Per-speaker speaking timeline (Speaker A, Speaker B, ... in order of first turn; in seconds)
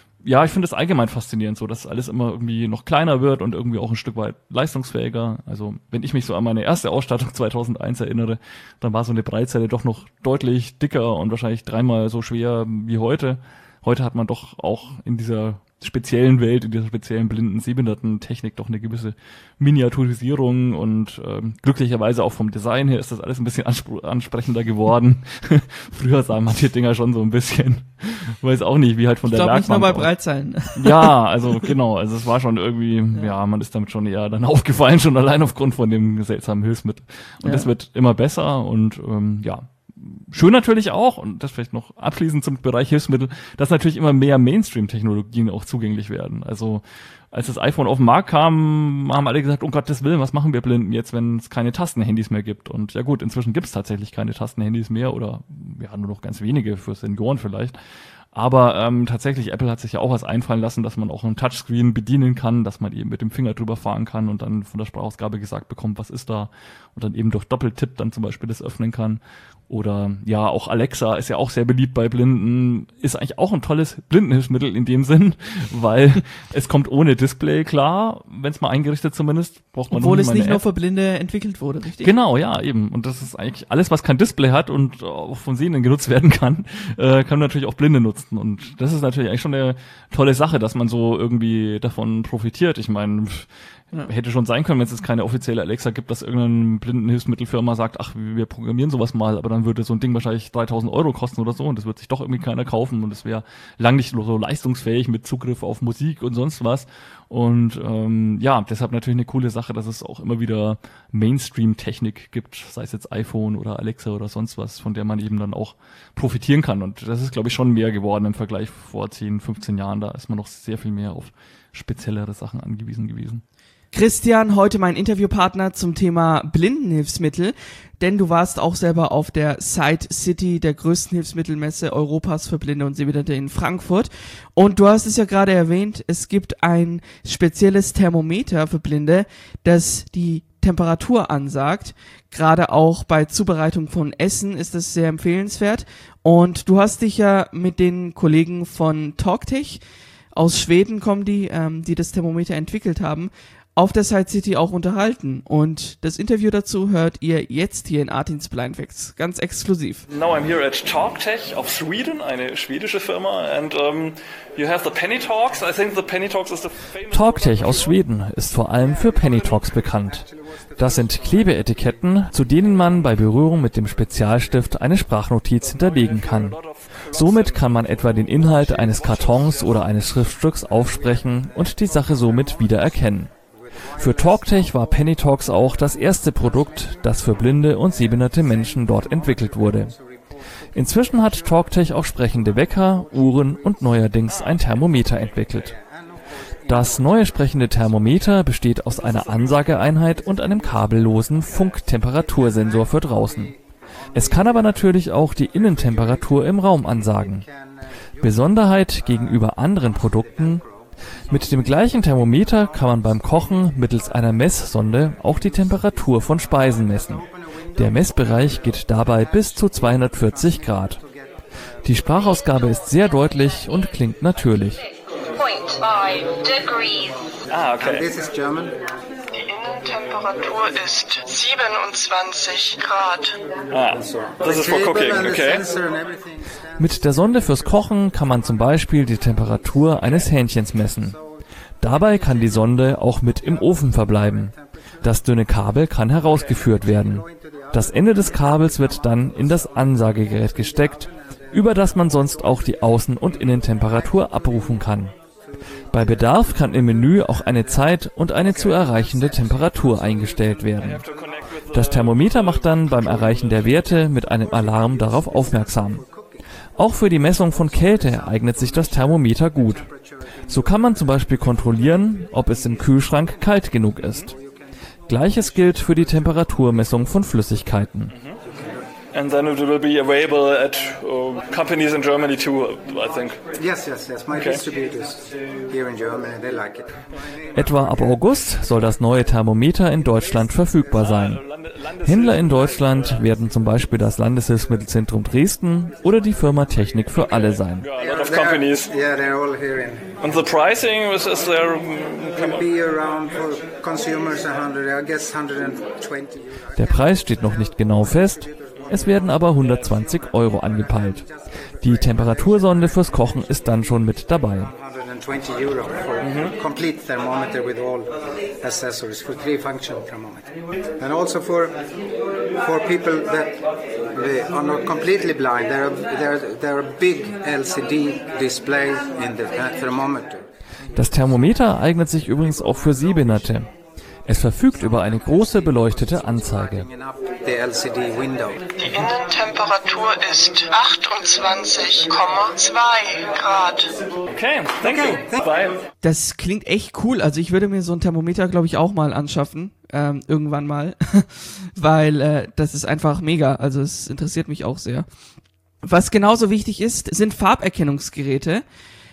Speaker A: 0.2-30.1, 30.8-57.8, 58.3-80.6, 82.0-123.4, 167.1-170.3, 170.8-176.6, 177.1-183.3, 184.0-189.9, 190.7-195.8, 196.7-203.5, 204.1-207.4, 208.2-210.6, 211.3-217.2, 217.8-221.0, 221.8-224.8, 236.8-241.2, 241.8-255.1, 255.9-261.0, 261.7-266.0, 266.8-269.9, 270.5-274.4, 275.1-278.1, 287.5-291.4, 292.0-297.9, 306.8-311.3, 311.8-314.7, 330.9-333.7, 334.3-336.9
Speaker B: 29.2-31.2, 37.4-37.7, 79.9-82.1, 123.9-149.8, 150.3-160.0, 346.0-355.1, 355.8-358.6
Speaker C: 160.1-167.9, 175.6-177.8, 227.5-228.1, 233.7-235.7, 260.8-263.2, 278.1-278.4, 279.1-283.4, 284.3-284.6, 291.0-293.2, 297.7-298.9, 300.2-302.6, 316.2-316.5, 344.3-345.8
Speaker D: 168.8-172.0, 178.2-179.9, 181.2-182.6, 183.5-185.1, 185.7-187.2, 188.0-191.6, 192.4-198.3, 198.9-203.6, 204.1-204.8, 205.5-208.5, 209.0-211.6, 216.7-221.2, 227.8-228.8, 233.8-236.8, 241.8-242.7, 243.3-245.1, 246.3-252.5, 255.9-257.1, 258.4-260.7, 263.0-266.4, 267.2-270.9, 274.0-274.6, 275.2-276.0, 278.5-278.8, 283.6-288.2, 298.0-300.1, 302.4-309.1, 310.8-313.2, 314.6-321.8, 322.6-323.6, 324.1-330.5, 335.0-338.6, 344.8-345.4
Speaker E: 225.3-227.2, 229.3-233.3, 338.8-343.9